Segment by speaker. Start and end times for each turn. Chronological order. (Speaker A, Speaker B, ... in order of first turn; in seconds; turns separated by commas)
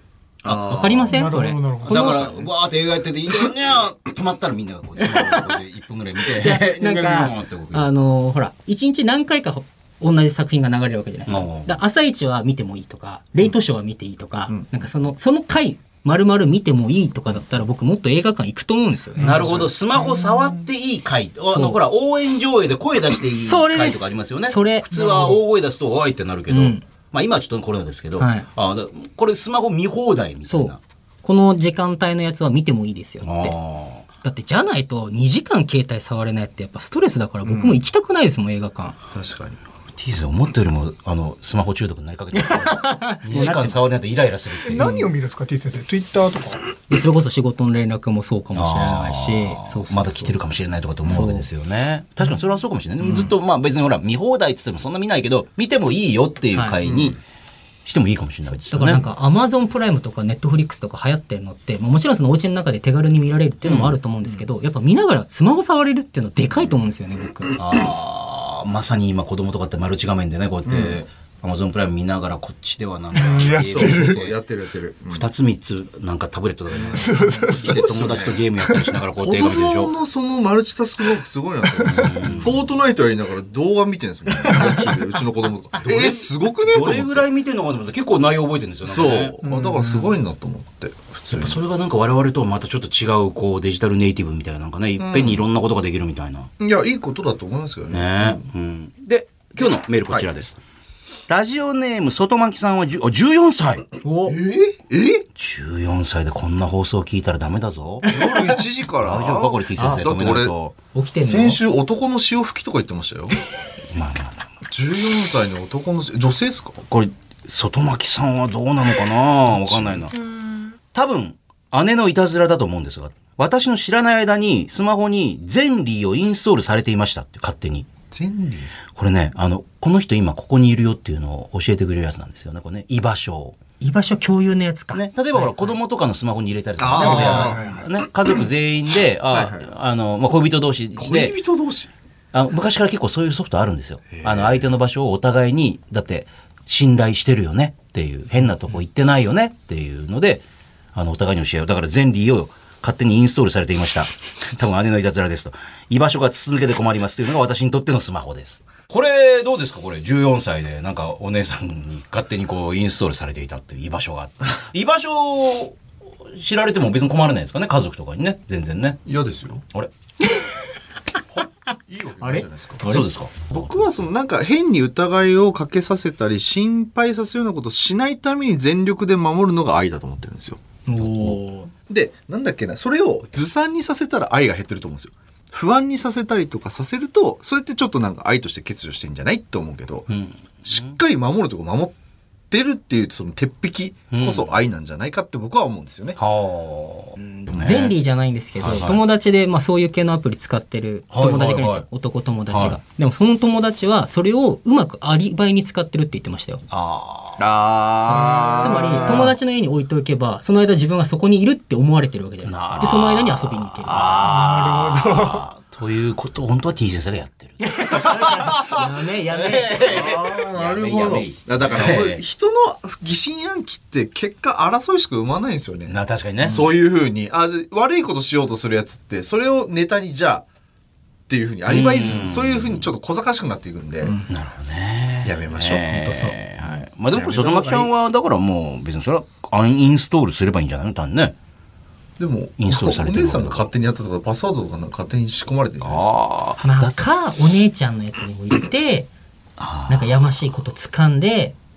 Speaker A: 0.4-1.1, Speaker B: 0.4-1.2, Speaker C: 0.5-2.2, Speaker D: 1.1-2.3, Speaker A: 1.8-7.8, Speaker B: 1.9-2.4, Speaker C: 5.1-5.5, Speaker C: 6.2-19.6, Speaker A: 11.3-11.7, Speaker A: 19.2-30.8, Speaker B: 19.2-19.7, Speaker D: 19.9-20.6, Speaker C: 21.5-21.8, Speaker C: 23.2-25.4, Speaker C: 26.5-26.8, Speaker C: 28.2-28.5, Speaker C: 30.5-33.5, Speaker A: 33.2-34.0, Speaker C: 34.2-39.0, Speaker B: 37.4-37.8, Speaker B: 39.1-39.6, Speaker A: 40.0-44.9, Speaker C: 42.3-43.9, Speaker D: 44.6-46.6, Speaker C: 44.8-45.1, Speaker C: 46.9-50.4, Speaker A: 48.5-57.2, Speaker C: 51.0-51.5, Speaker C: 56.5-56.8, Speaker B: 56.8-57.2, Speaker A: 57.9-59.0, Speaker C: 58.6-67.6, Speaker A: 63.6-63.9, Speaker A: 67.5-74.3, Speaker B: 70.7-71.0, Speaker D: 73.2-74.2, Speaker B: 73.3-75.3, Speaker A: 75.1-79.9, Speaker D: 76.9-77.8, Speaker B: 77.5-78.4, Speaker B: 79.2-87.3, Speaker D: 81.8-82.2, Speaker A: 81.8-82.6, Speaker C: 84.5-84.8, Speaker A: 85.8-89.4, Speaker B: 88.8-91.6, Speaker D: 89.4-90.1, Speaker A: 91.3-96.5, Speaker B: 95.0-95.4, Speaker B: 96.6-98.5, Speaker A: 97.9-100.6, Speaker A: 101.3-103.9, Speaker C: 104.0-104.4, Speaker B: 104.2-105.2, Speaker A: 105.3-108.1, Speaker B: 108.0-110.5, Speaker A: 109.0-110.7, Speaker C: 109.8-110.0, Speaker C: 110.9-111.6, Speaker B: 111.2-113.4, Speaker A: 113.9-114.4, Speaker B: 114.7-116.8, Speaker A: 116.9-120.1, Speaker B: 119.5-120.1, Speaker A: 120.9-127.9, Speaker B: 128.1-128.7, Speaker A: 128.9-133.6, Speaker C: 133.8-135.8, Speaker A: 134.9-141.3, Speaker B: 136.8-137.8, Speaker D: 136.9-137.9, Speaker B: 139.3-139.7, Speaker B: 140.9-141.9, Speaker A: 142.3-150.4, Speaker B: 144.1-144.6, Speaker A: 150.9-169.0, Speaker B: 169.1-169.6, Speaker B: 171.3-181.3, Speaker C: 172.2-173.1, Speaker A: 172.8-173.9, Speaker C: 180.8-181.7, Speaker B: 181.9-190.1, Speaker A: 190.1-191.0, Speaker B: 190.6-191.9, Speaker B: 192.5-196.2, Speaker A: 194.1-194.5, Speaker A: 196.2-197.9, Speaker C: 197.2-206.6, Speaker A: 198.6-199.0, Speaker A: 201.1-201.8, Speaker A: 202.5-202.8, Speaker A: 206.7-207.4, Speaker B: 207.4-209.3, Speaker C: 208.0-214.3, Speaker D: 208.1-209.2, Speaker A: 212.4-222.2, Speaker D: 214.2-215.4, Speaker C: 217.6-220.0, Speaker B: 219.8-230.4, Speaker A: 225.9-226.7, Speaker B: 231.3-234.2, Speaker A: 231.7-232.9, Speaker C: 234.0-234.3, Speaker A: 234.3-241.3, Speaker B: 235.2-235.9, Speaker C: 235.8-236.3, Speaker B: 237.1-237.9, Speaker B: 242.2-246.1, Speaker A: 242.6-243.7, Speaker A: 245.8-246.9, Speaker C: 246.6-249.1, Speaker A: 249.6-250.3, Speaker C: 249.9-251.5